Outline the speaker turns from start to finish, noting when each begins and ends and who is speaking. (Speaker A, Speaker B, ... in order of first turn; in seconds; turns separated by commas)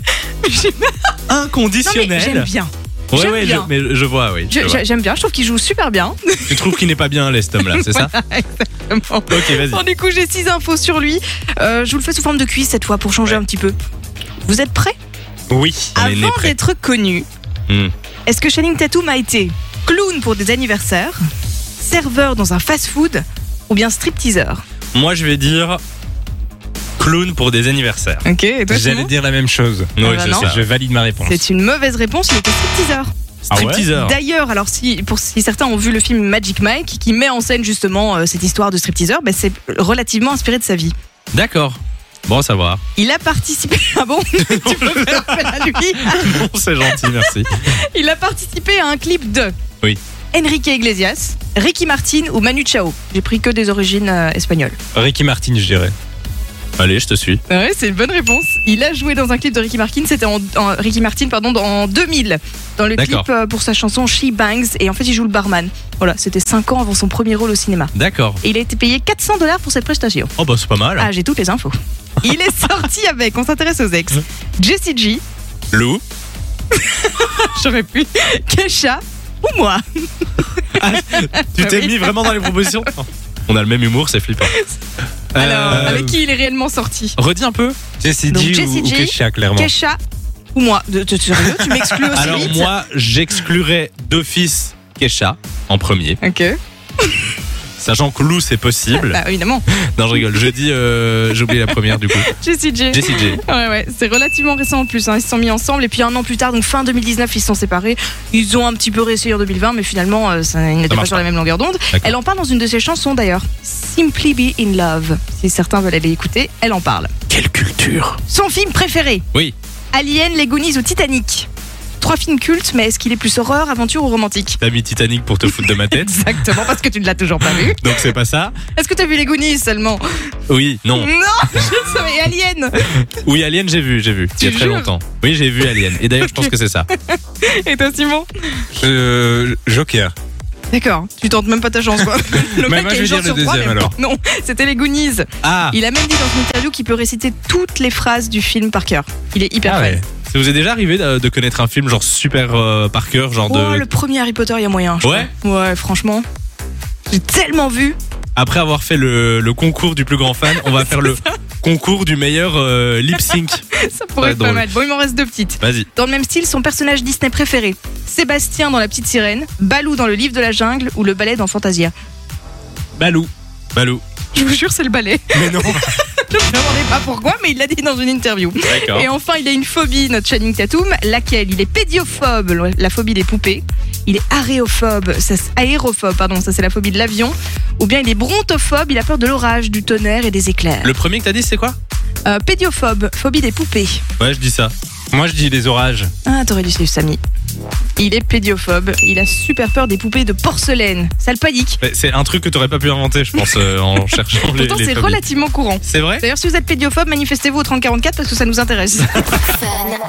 Speaker A: 0.4-1.1, Speaker B: 1.3-2.5, Speaker A: 1.8-3.7, Speaker B: 3.1-4.8, Speaker A: 4.5-6.8, Speaker B: 6.5-8.1, Speaker A: 7.6-13.8, Speaker B: 9.3-9.8, Speaker A: 14.4-15.0, Speaker C: 15.5-15.9, Speaker B: 15.9-16.5, Speaker A: 15.9-17.3, Speaker B: 17.7-17.9, Speaker A: 18.3-21.2, Speaker A: 21.8-24.6, Speaker B: 24.9-25.8, Speaker B: 27.0-28.2, Speaker A: 28.2-29.1, Speaker C: 28.7-31.4, Speaker B: 30.0-30.6, Speaker A: 30.0-30.5, Speaker A: 31.2-40.9, Speaker B: 33.5-34.2, Speaker C: 33.5-33.9, Speaker B: 41.3-42.8, Speaker A: 43.0-49.5, Speaker B: 44.4-47.6, Speaker A: 50.3-54.8, Speaker C: 54.9-55.9, Speaker B: 56.8-57.4, Speaker A: 57.5-70.3, Speaker B: 63.0-63.3, Speaker B: 67.9-68.4, Speaker B: 70.4-71.1, Speaker A: 71.0-75.2, Speaker B: 75.7-76.0, Speaker A: 76.7-82.8, Speaker B: 80.7-84.5, Speaker B: 85.3-86.2, Speaker A: 85.4-87.2, Speaker C: 85.7-86.1, Speaker B: 87.2-87.8, Speaker C: 88.0-89.7, Speaker A: 88.3-90.0, Speaker A: 90.5-92.8, Speaker C: 91.4-92.3, Speaker B: 92.1-96.2, Speaker A: 96.2-97.3, Speaker B: 97.8-99.2, Speaker A: 98.9-99.7, Speaker B: 99.7-102.3, Speaker A: 101.5-117.1, Speaker B: 102.9-103.4, Speaker B: 110.9-111.2, Speaker B: 117.3-118.2, Speaker A: 118.3-119.2, Speaker A: 119.9-121.5, Speaker A: 122.0-124.6, Speaker B: 124.6-126.8, Speaker A: 125.4-128.1, Speaker B: 127.4-128.6, Speaker A: 128.8-130.0, Speaker B: 130.5-131.1, Speaker A: 130.9-132.8, Speaker B: 133.1-136.9, Speaker A: 134.4-134.9, Speaker A: 136.2-136.5, Speaker A: 137.1-138.7, Speaker C: 138.7-140.1, Speaker A: 140.7-150.0, Speaker C: 142.0-143.9, Speaker B: 145.4-145.8, Speaker C: 149.6-150.1, Speaker B: 150.2-153.8, Speaker A: 153.5-156.2, Speaker B: 155.0-155.3, Speaker A: 157.1-158.0, Speaker B: 158.4-163.6, Speaker A: 160.6-161.4, Speaker A: 163.3-171.9, Speaker B: 164.2-164.7, Speaker B: 165.6-165.9, Speaker C: 173.0-173.3, Speaker B: 173.7-174.0, Speaker A: 174.3-190.9, Speaker C: 175.4-175.7, Speaker B: 175.4-175.8, Speaker B: 178.6-179.1, Speaker B: 190.8-191.8, Speaker A: 192.3-194.0, Speaker B: 194.2-194.7, Speaker C: 195.1-196.1, Speaker A: 196.2-197.2, Speaker A: 198.0-201.8, Speaker B: 201.8-205.2, Speaker A: 204.4-209.5, Speaker B: 205.8-206.2